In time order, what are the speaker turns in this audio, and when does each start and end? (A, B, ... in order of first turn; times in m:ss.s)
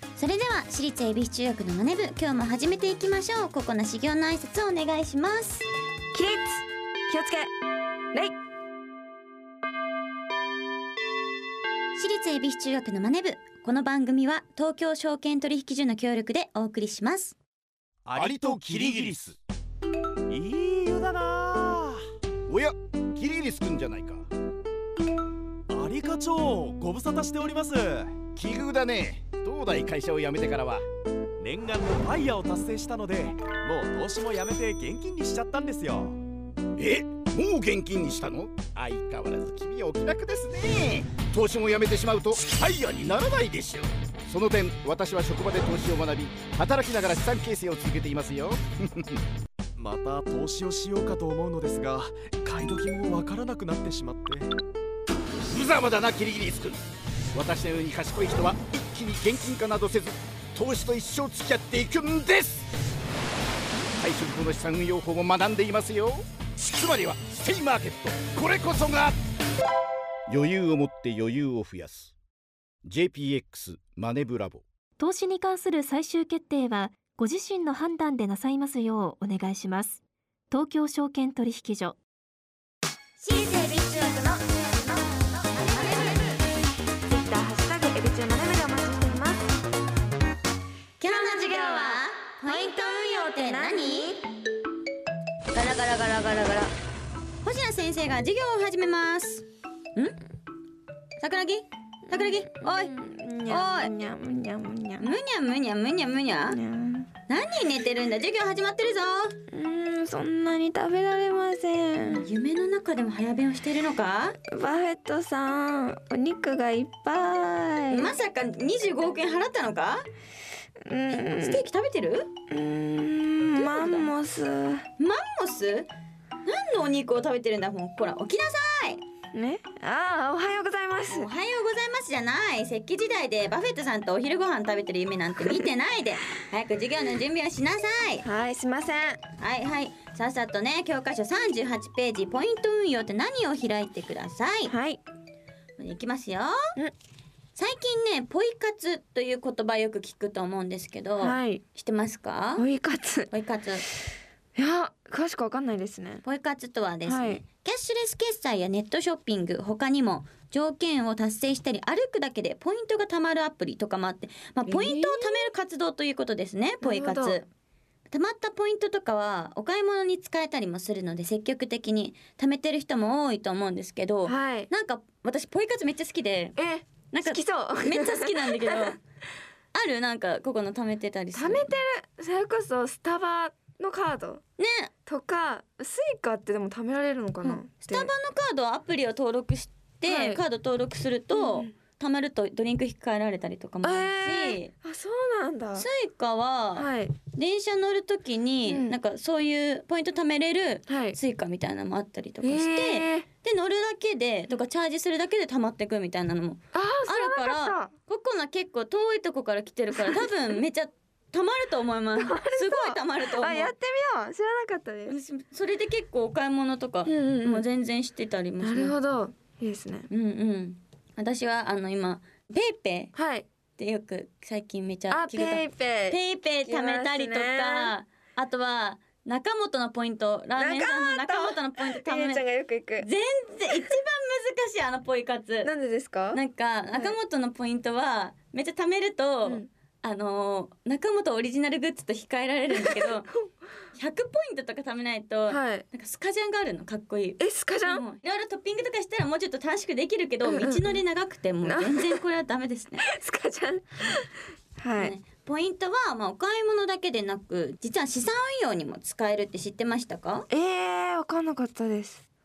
0:00.2-0:05.7 A
0:06.1-0:07.5 B
0:11.9-0:17.4 A
0:18.0-0:19.2 C
0:18.1-0:19.4 D
0:20.3-0:22.0 C
0:22.5-0:24.3 D
0:25.7-0:28.2 C
0:28.3-0:30.8 D
0:31.4-0:36.2 C
0:36.8-0:49.2 D
0:49.8-0:54.5 C
0:55.5-0:56.8 D
0:57.3-1:02.6 D
1:03.9-1:09.2 D
1:10.3-1:12.1 D
1:12.8-1:14.6 D
1:15.0-1:20.0 E
1:20.5-1:22.0 E
1:23.2-1:26.3 A
1:23.3-1:24.4 B
1:25.6-1:26.4 B
1:27.1-1:29.5 B
1:31.0-1:34.2 A
1:31.0-1:34.2 B
1:35.5-1:36.7 A
1:37.4-1:40.2 A
1:41.2-1:42.9 A
1:42.1-1:45.1 B
1:43.5-1:43.9 A
1:45.0-1:46.6 A
1:46.5-1:47.1 B
1:47.3-1:49.4 A
1:49.5-1:52.2 B
1:52.1-1:54.4 A
1:54.5-1:58.1 B
1:57.9-2:00.0 A
2:00.8-2:01.6 B
2:01.1-2:02.3 A
2:02.5-2:04.8 B
2:03.5-2:04.1 A
2:05.0-2:05.9 A
2:06.4-2:09.0 A
2:09.3-2:11.3 B
2:11.1-2:18.2 A
2:18.2-2:19.2 B
2:19.4-2:24.7 A
2:24.7-2:25.0 B
2:25.8-2:26.5 A
2:27.6-2:32.6 A
2:31.2-2:31.6 B
2:32.6-2:33.3 B
2:33.3-2:33.8 A
2:34.6-2:36.2 B
2:36.2-2:47.5 A
2:37.0-2:37.4 B
2:44.7-2:45.4 B
2:46.8-2:47.4 B
2:48.1-2:56.6 A
2:54.2-2:54.7 B
2:56.6-2:58.7 B
2:57.1-2:59.0 A
2:59.7-3:01.7 A
3:01.3-3:04.4 B
3:04.6-3:04.9 A
3:05.0-3:08.1 B
3:07.4-3:14.7 A
3:10.0-3:10.4 B
3:11.3-3:11.7 B
3:13.8-3:15.9 B
3:15.8-3:33.7 A
3:16.7-3:17.1 B
3:18.6-3:18.9 B
3:20.9-3:21.2 B
3:22.4-3:23.2 B
3:26.7-3:27.9 B
3:29.9-3:30.3 B
3:32.2-3:35.1 B
3:35.1-3:39.0 A
3:37.0-3:37.6 B
3:38.6-3:40.1 B
3:40.1-3:43.1 A
3:43.1-3:43.4 B
3:43.8-3:52.4 A
3:45.1-3:47.9 B
3:50.6-3:53.0 B
3:53.0-3:55.7 A
3:55.6-3:56.4 B
3:56.3-4:03.3 A
4:03.9-4:13.0 A
4:05.5-4:05.8 B
4:07.4-4:08.0 B
4:10.4-4:10.9 B
4:11.6-4:12.2 B
4:13.0-4:14.2 B
4:14.8-4:15.1 B
4:14.9-4:20.5 A
4:20.5-4:22.2 B